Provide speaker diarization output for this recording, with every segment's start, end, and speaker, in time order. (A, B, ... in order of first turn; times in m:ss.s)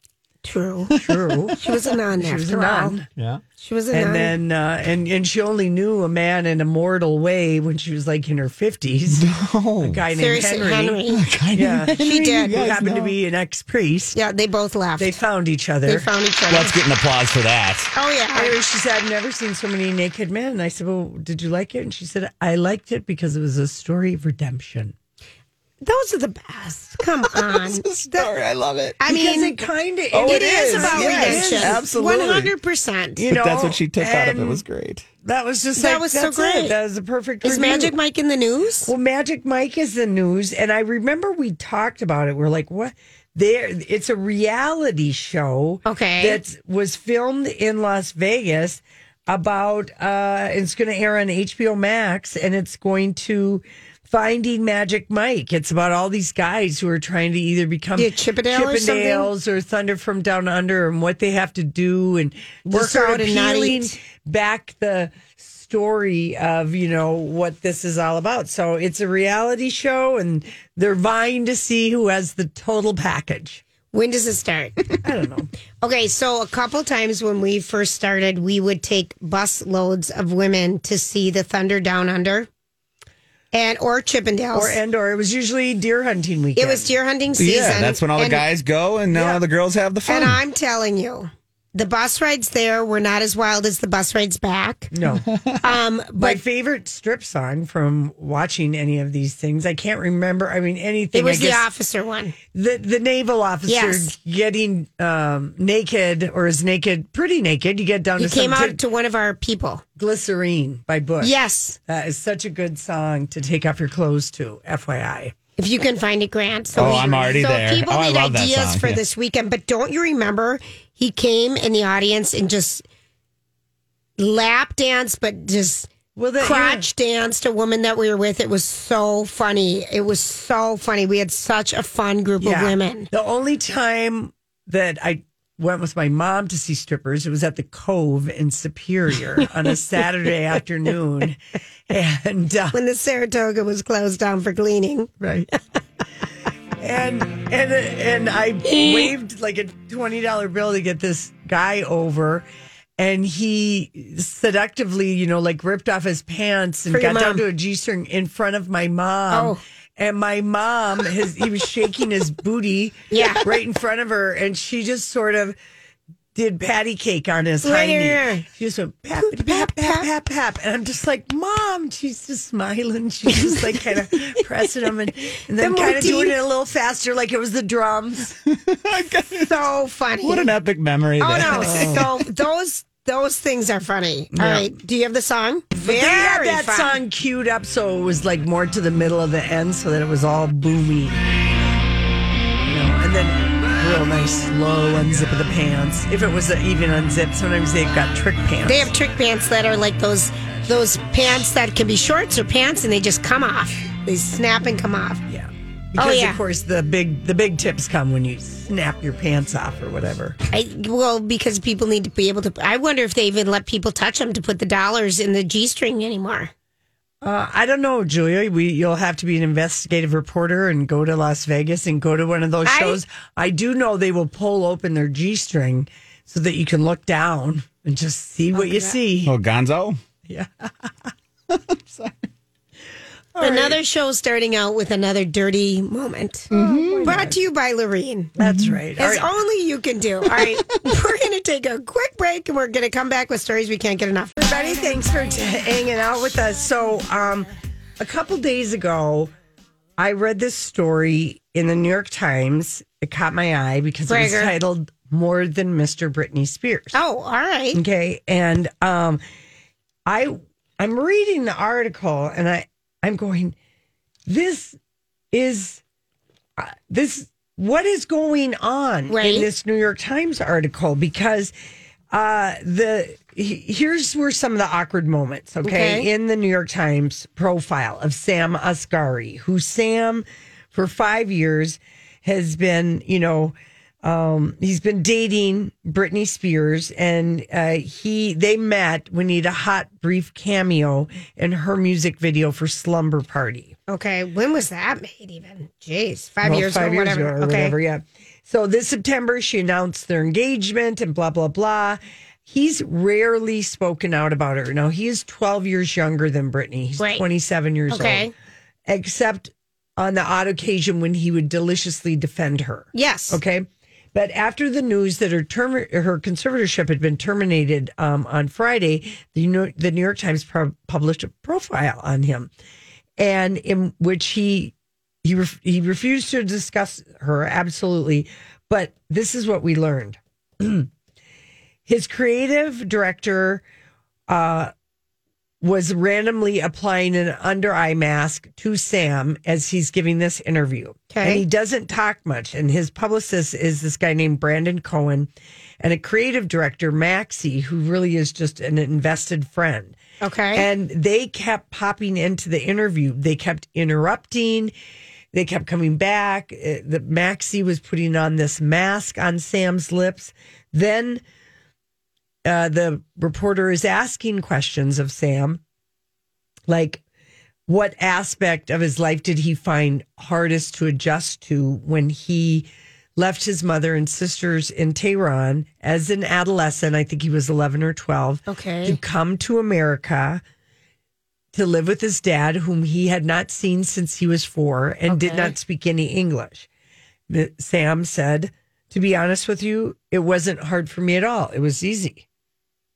0:00.4-0:00.9 A
0:01.0-0:01.6 B
0:01.5-0:03.0 A
0:02.1-0:03.1 B
0:03.1-0:03.4 C
0:03.6-0:04.3 A
0:03.9-0:09.3 B
0:09.1-0:10.1 C
0:09.8-0:14.2 B
0:10.2-0:11.2 A
0:11.1-0:13.1 C
0:12.0-0:12.6 A
0:14.1-0:15.1 A
0:15.0-0:16.1 B
0:15.8-0:16.8 A
0:16.5-0:17.9 C
0:17.9-0:18.5 A
0:18.3-0:24.9 B
0:25.8-0:28.3 A
0:27.3-0:29.0 C
0:29.0-0:29.5 A
0:29.0-0:31.8 B
0:30.1-0:32.5 C
0:30.2-0:33.3 A
0:33.2-0:34.6 B
0:33.2-0:35.0 C
0:35.2-0:38.0 B
0:35.8-0:36.8 A
0:37.4-0:38.9 A
0:38.8-1:13.6 B
0:45.8-0:46.4 A
0:58.0-0:59.3 A
1:02.7-1:03.9 A
1:13.9-1:14.9 A
1:15.0-1:15.5 B
1:15.8-1:22.5 A
1:23.5-1:24.8 A
1:24.5-1:26.9 B
1:26.6-1:28.4 A
1:27.4-1:30.4 C
1:29.1-1:29.4 B
1:30.1-1:34.9 A
1:34.9-1:35.3 B
1:35.2-1:35.6 C
1:35.6-1:36.4 A
1:36.1-1:41.6 B
1:41.1-1:42.4 A
1:42.5-1:48.8 B
1:43.7-1:44.1 A
1:48.2-1:49.8 A
1:50.0-1:55.3 B
1:51.2-1:51.8 A
1:55.6-2:02.8 A
1:56.8-1:57.4 B
1:56.8-1:59.0 C
2:04.2-2:13.1 A
2:06.1-2:06.9 B
2:12.4-2:21.4 B
2:21.9-2:22.8 B
2:22.7-2:25.1 A
2:25.2-2:25.5 B
2:26.8-2:32.4 B
2:28.7-2:29.1 A
2:33.0-2:45.6 B
2:36.9-2:37.4 A
2:39.3-2:39.6 A
2:43.1-2:43.5 A
2:46.3-2:58.4 B
2:47.6-2:48.5 A
2:49.2-2:50.1 A
2:55.6-2:56.4 A
2:58.5-2:59.5 C
2:59.4-3:00.5 A
3:00.2-3:02.1 C
3:01.2-3:07.0 A
3:01.4-3:02.1 B
3:04.3-3:04.7 B
3:05.8-3:11.4 B
3:12.6-3:18.9 B
3:18.6-3:25.2 A
3:25.3-3:30.4 B
3:26.0-3:26.4 A
3:30.5-3:36.5 A
3:37.2-3:49.3 B
3:42.6-3:43.0 A
3:48.5-3:49.0 A
3:49.2-3:50.0 C
3:50.3-3:50.6 B
3:53.3-3:53.8 B
3:53.4-3:56.5 A
3:56.5-3:57.1 C
3:56.5-3:57.4 B
3:57.0-3:58.3 A
3:58.4-3:59.3 B
3:58.4-3:58.8 C
3:59.0-4:04.7 A
4:04.4-4:09.3 B
4:10.0-4:17.0 B
4:14.1-4:14.5 A
4:16.9-4:17.8 A
4:17.7-4:19.2 B
4:20.0-4:23.5 B
4:24.3-4:24.8 B
4:25.3-4:25.8 B
4:26.6-4:31.5 B
4:29.1-4:29.5 A
4:32.1-4:53.7 B
4:35.6-4:36.0 A
4:53.9-4:57.7 A
4:56.4-5:08.3 B
5:07.0-5:07.2 A
5:07.9-5:08.3 A
5:08.9-5:22.5 B
5:12.9-5:13.4 A
5:23.2-5:30.9 B
5:31.8-5:33.6 B
5:34.3-5:34.7 B
5:35.6-5:50.0 B
5:41.1-5:41.4 A
5:50.2-5:50.7 A
5:50.5-5:54.7 B
5:55.3-6:01.2 B
6:02.4-6:05.6 B
6:06.7-6:07.0 B
6:07.7-6:20.4 B
6:18.5-6:19.0 A
6:21.5-6:26.7 B
6:25.1-6:25.5 A
6:27.3-6:32.2 B